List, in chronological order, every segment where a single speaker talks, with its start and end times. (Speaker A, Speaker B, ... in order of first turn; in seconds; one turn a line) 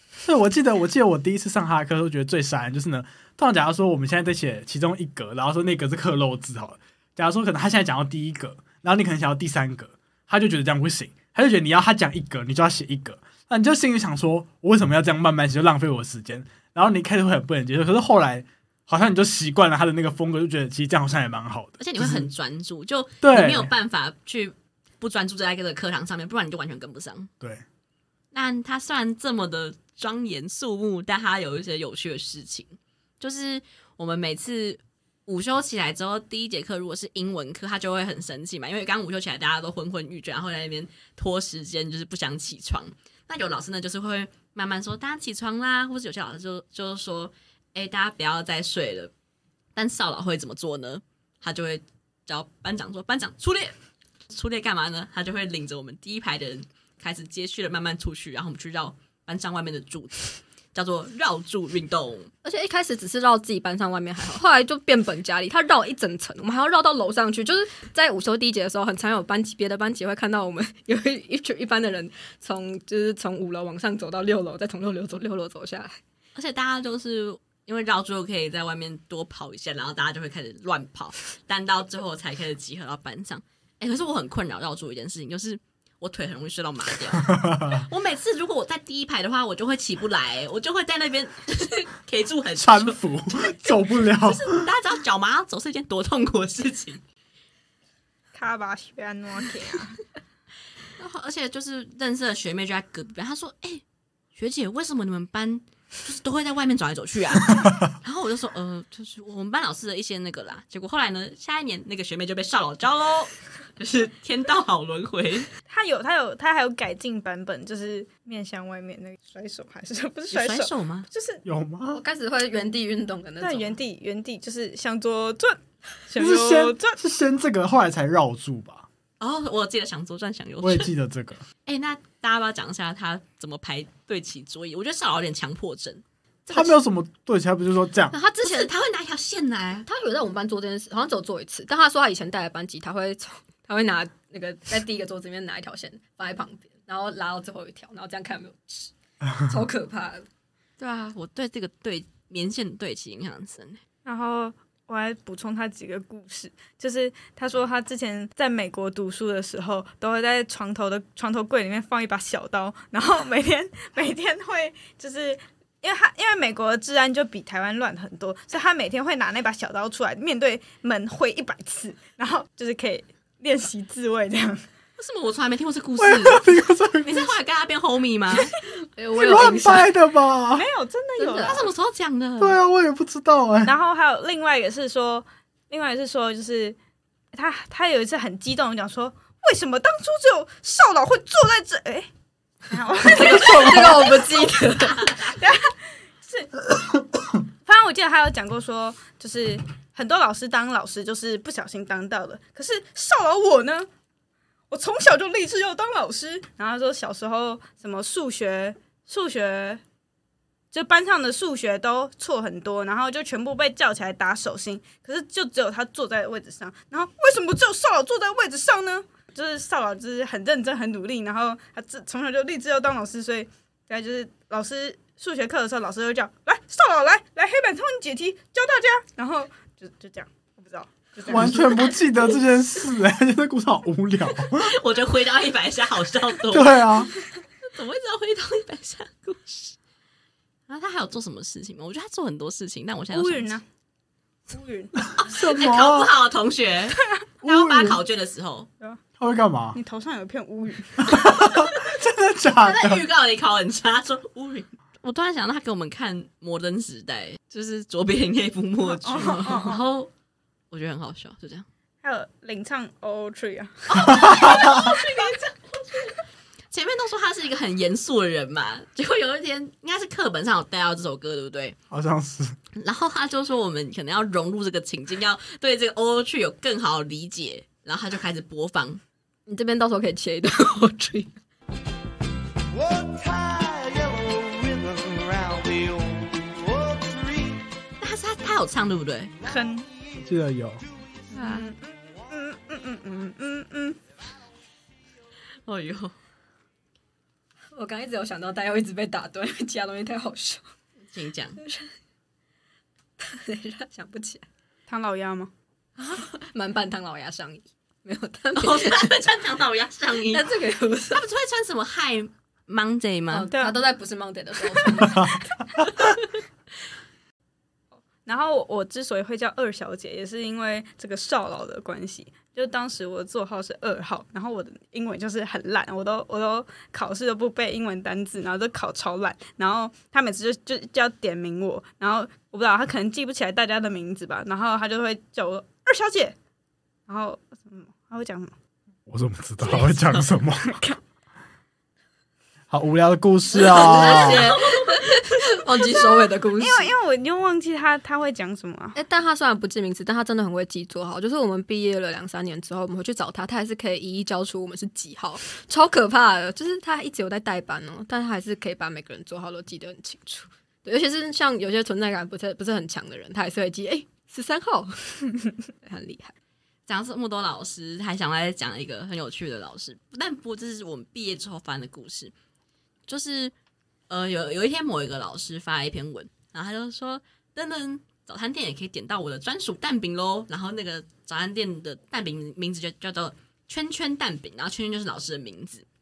Speaker A: 0.2-22.3
Speaker B: 21.8-27.3
Speaker A: 23.2-23.7
Speaker B: 28.3-49.1
Speaker B: 49.8-53.7
Speaker B: 54.3-62.3
Speaker C: 62.4-76.0
Speaker B: 76.3-97.0
Speaker A: 87.3-87.8
Speaker A: 92.6-94.7
Speaker D: 98.3-100.0
Speaker B: 101.0-103.8
Speaker B: 104.3-115.5
Speaker D: 115.7-121.4
Speaker B: 120.3-121.1
Speaker A: 121.4-122.0
Speaker C: 121.9-123.8
Speaker D: 123.4-127.0
Speaker A: 126.2-128.8
Speaker B: 129.2-130.9
Speaker A: 130.6-131.4
Speaker B: 131.7-136.0
Speaker A: 136.5-138.1
Speaker C: 138.1-138.7
Speaker B: 138.1-139.9
Speaker C: 139.9-150.2
Speaker B: 150.8-153.8
Speaker D: 154.0-174.7
Speaker B: 175.0-178.5
Speaker A: 176.0-177.3
Speaker C: 178.4-179.9
Speaker A: 179.2-180.7
Speaker D: 180.5-181.7
Speaker C: 181.2-181.7
Speaker B: 181.4-182.6
Speaker A: 182.4-183.7
Speaker D: 183.6-186.8
Speaker D: 187.3-192.1
Speaker D: 192.7-194.5
Speaker C: 193.0-195.1
Speaker A: 193.2-194.0
Speaker B: 194.8-195.3
Speaker D: 195.1-196.5
Speaker D: 197.6-203.9
Speaker D: 204.7-209.8
Speaker D: 210.7-231.9
Speaker A: 231.3-234.8
Speaker B: 231.3-232.1
Speaker B: 234.5-237.0
Speaker A: 236.5-237.1
Speaker B: 237.6-239.8
Speaker B: 240.7-243.6
Speaker D: 243.1-243.6
Speaker D: 244.5-245.0
Speaker A: 245.1-246.1
Speaker B: 245.2-248.7
Speaker A: 247.4-248.0
Speaker A: 249.2-249.8
Speaker D: 249.7-251.2
Speaker A: 251.0-253.0
Speaker B: 252.6-260.1
Speaker D: 258.9-259.8
Speaker B: 260.7-261.7
Speaker D: 262.0-265.4
Speaker B: 263.9-266.2
Speaker A: 264.4-264.9
Speaker B: 266.7-271.8
Speaker A: 271.9-272.6
Speaker B: 272.8-279.0
Speaker C: 279.5-281.3
Speaker E: 282.7-287.6
Speaker B: 288.0-289.3
Speaker D: 289.4-289.8
Speaker E: 289.8-290.2
Speaker A: 290.2-290.8
Speaker D: 291.3-294.0
Speaker B: 291.4-291.7
Speaker B: 295.6-296.1
Speaker C: 297.7-300.6
Speaker B: 301.1-301.6
Speaker C: 301.6-301.9
Speaker C: 303.2-304.4
Speaker D: 304.9-305.5
Speaker C: 306.0-309.2
Speaker B: 308.6-310.4
Speaker C: 310.2-311.2
Speaker B: 311.1-313.5
Speaker C: 313.3-315.4
Speaker D: 313.5-313.8
Speaker D: 318.2-336.4
Speaker D: 337.1-338.5
Speaker A: 339.1-340.8
Speaker D: 339.9-341.0
Speaker A: 342.7-344.5
Speaker B: 343.5-345.2
Speaker C: 343.6-346.9
Speaker D: 346.6-349.0
Speaker C: 348.9-366.3
Speaker B: 366.9-372.3
Speaker B: 373.1-373.5
Speaker B: 374.1-385.9